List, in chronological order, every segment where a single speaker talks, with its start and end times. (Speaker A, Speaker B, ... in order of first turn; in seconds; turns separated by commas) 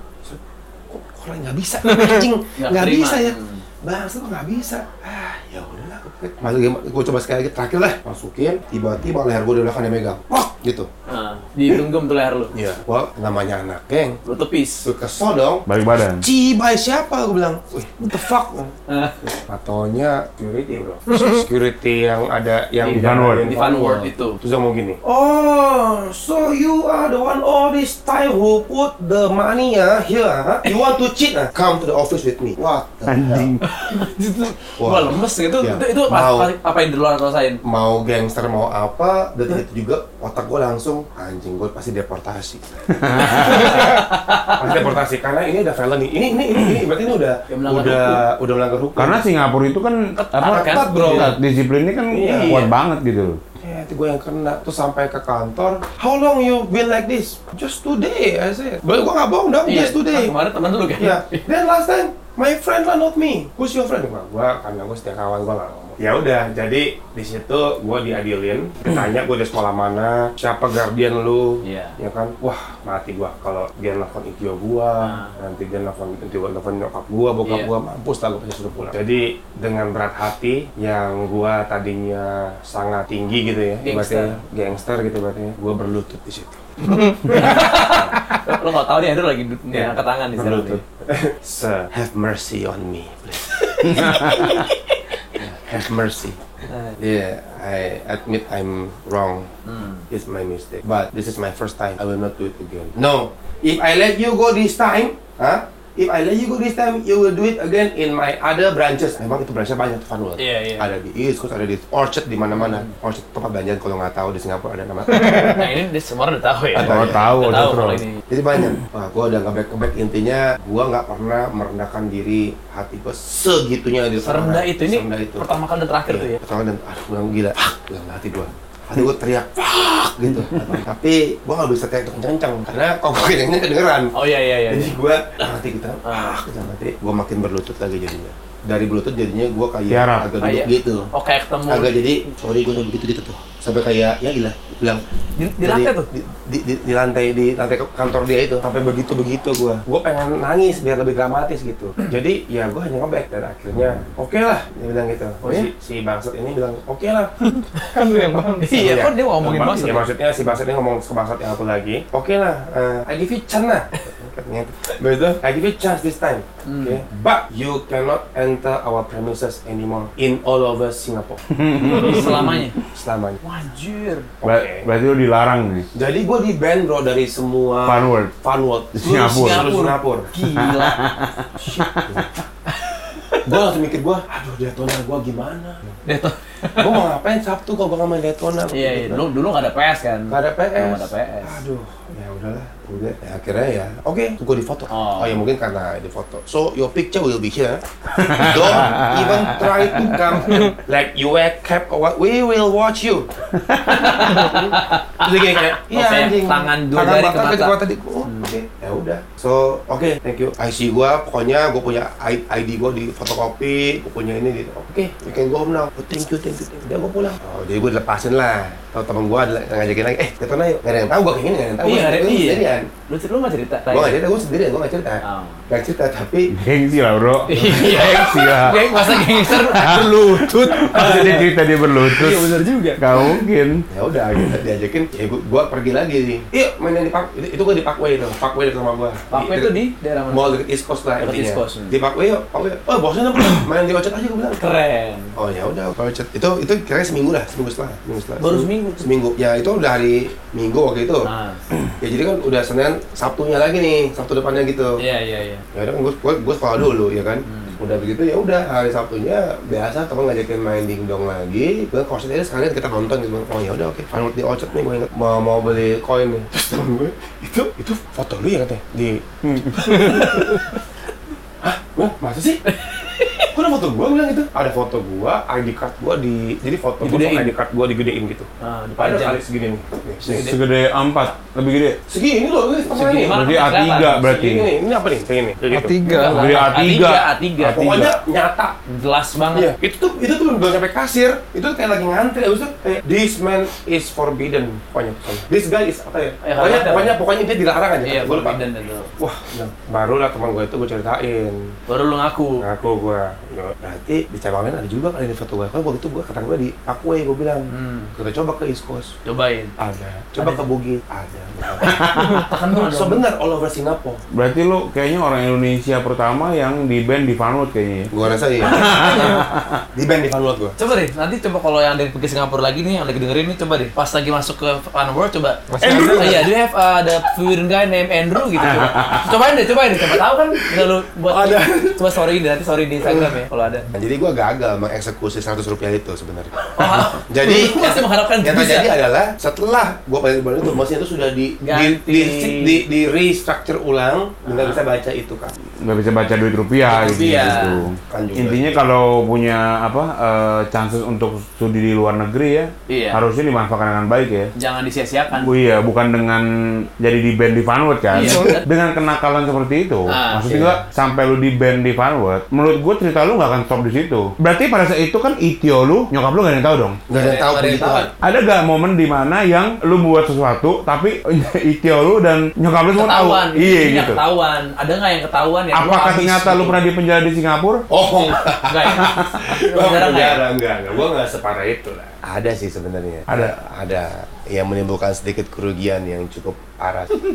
Speaker A: 0.2-10.9, Speaker B: 2.6-3.6, Speaker B: 11.1-12.5, Speaker A: 12.5-14.2, Speaker B: 14.2-14.9, Speaker A: 14.8-15.7, Speaker C: 15.7-16.2, Speaker A: 16.2-18.7, Speaker B: 18.9-19.2, Speaker A: 19.2-33.5, Speaker B: 22.8-24.4, Speaker C: 22.9-23.5, Speaker C: 33.1-33.6, Speaker B: 33.6-37.6, Speaker A: 34.8-36.5, Speaker A: 37.6-49.2, Speaker C: 43.0-43.8, Speaker B: 43.1-44.9, Speaker B: 47.5-48.2, Speaker C: 49.0-53.4, Speaker B: 50.1-51.3, Speaker A: 50.5-51.3, Speaker A: 52.1-52.6, Speaker B: 52.2-52.7, Speaker A: 53.6-60.3, Speaker B: 59.6-61.4, Speaker A: 61.0-86.7, Speaker B: 71.6-72.0, Speaker B: 75.0-75.3, Speaker B: 77.4-77.7, Speaker B: 83.8-84.4, Speaker B: 86.9-90.8, Speaker A: 87.3-88.1, Speaker A: 89.7-94.7, Speaker B: 93.7-95.0, Speaker C: 94.0-94.4, Speaker A: 95.3-96.4, Speaker B: 96.7-97.0, Speaker A: 97.0-99.5, Speaker B: 99.6-100.0, Speaker A: 100.1-115.7, Speaker B: 110.4-110.9, Speaker B: 112.5-112.9, Speaker B: 115.3-118.2, Speaker C: 116.8-118.0, Speaker A: 116.8-125.5, Speaker B: 124.2-126.4, Speaker A: 126.1-134.1, Speaker B: 134.1-134.9, Speaker A: 134.7-141.1, Speaker B: 136.0-136.4, Speaker C: 139.9-140.3, Speaker B: 140.4-141.9, Speaker A: 141.7-145.0, Speaker B: 145.4-146.1, Speaker A: 145.6-157.3, Speaker B: 155.4-155.7, Speaker B: 157.4-157.9, Speaker D: 157.8-159.9, Speaker B: 158.6-160.1, Speaker A: 158.7-171.4, Speaker B: 166.6-167.0, Speaker C: 171.5-172.7, Speaker B: 171.8-172.8, Speaker A: 172.0-173.4, Speaker B: 173.4-174.3, Speaker A: 174.4-174.9, Speaker C: 174.4-175.9, Speaker A: 175.9-180.3, Speaker C: 177.8-178.3, Speaker C: 178.9-179.8, Speaker B: 179.3-181.0, Speaker C: 180.5-182.2, Speaker B: 182.7-183.6, Speaker A: 183.4-185.8, Speaker B: 186.1-187.0, Speaker A: 186.8-189.2, Speaker B: 188.7-191.6, Speaker A: 190.3-203.3, Speaker B: 194.9-195.4, Speaker C: 198.2-200.2, Speaker B: 203.8-207.7, Speaker A: 203.9-222.9, Speaker B: 208.2-208.5, Speaker B: 221.8-224.2, Speaker A: 223.9-226.5, Speaker B: 225.2-225.6, Speaker C: 226.5-233.8, Speaker B: 227.5-231.5, Speaker B: 232.1-233.3, Speaker A: 233.9-239.7, Speaker B: 239.3-240.6, Speaker A: 240.3-244.6, Speaker B: 241.2-242.0, Speaker B: 244.6-245.3, Speaker A: 245.4-251.3, Speaker B: 248.4-249.1, Speaker B: 251.2-251.6, Speaker A: 252.0-255.0, Speaker B: 255.0-255.6, Speaker A: 255.7-270.6, Speaker B: 257.4-257.8, Speaker B: 269.7-270.8, Speaker A: 271.6-272.6, Speaker B: 272.6-273.5, Speaker A: 273.5-280.5, Speaker B: 277.0-277.5, Speaker B: 278.6-279.4, Speaker B: 280.2-280.6, Speaker C: 280.2-282.0, Speaker A: 282.1-283.4, Speaker B: 282.9-284.4, Speaker C: 283.2-284.7, Speaker A: 284.2-286.0, Speaker D: 285.7-286.6, Speaker B: 286.0-288.0, Speaker C: 286.3-288.1, Speaker A: 287.6-288.8, Speaker B: 288.9-289.7, Speaker A: 289.5-298.6, Speaker B: 296.4-297.1, Speaker B: 298.0-299.1, Speaker A: 299.2-301.6, Speaker B: 301.9-302.6, Speaker A: 302.6-309.1, Speaker B: 307.7-308.1, Speaker B: 309.2-309.7, Speaker A: 309.8-314.2, Speaker B: 310.4-310.6, Speaker B: 311.8-313.2, Speaker C: 311.8-312.4, Speaker C: 314.3-319.8, Speaker A: 318.1-320.8, Speaker B: 318.7-319.4, Speaker B: 320.8-333.9, Speaker D: 325.7-326.4, Speaker C: 325.8-326.4, Speaker C: 328.7-329.2, Speaker A: 331.3-332.0, Speaker A: 333.9-345.5, Speaker B: 336.7-338.9, Speaker B: 341.6-342.8, Speaker B: 344.4-344.8, Speaker C: 345.8-354.5, Speaker B: 346.9-347.8, Speaker A: 348.1-348.7, Speaker B: 352.9-353.2, Speaker B: 354.5-355.5, Speaker C: 355.4-367.0, Speaker B: 358.1-358.7, Speaker D: 358.2-358.5, Speaker B: 360.1-360.8, Speaker A: 367.1-368.1, Speaker B: 367.1-368.1, Speaker C: 368.2-374.2, Speaker B: 372.9-376.8, Speaker C: 375.7-377.8, Speaker A: 377.9-387.1, Speaker B: 378.6-380.4, Speaker C: 383.3-383.5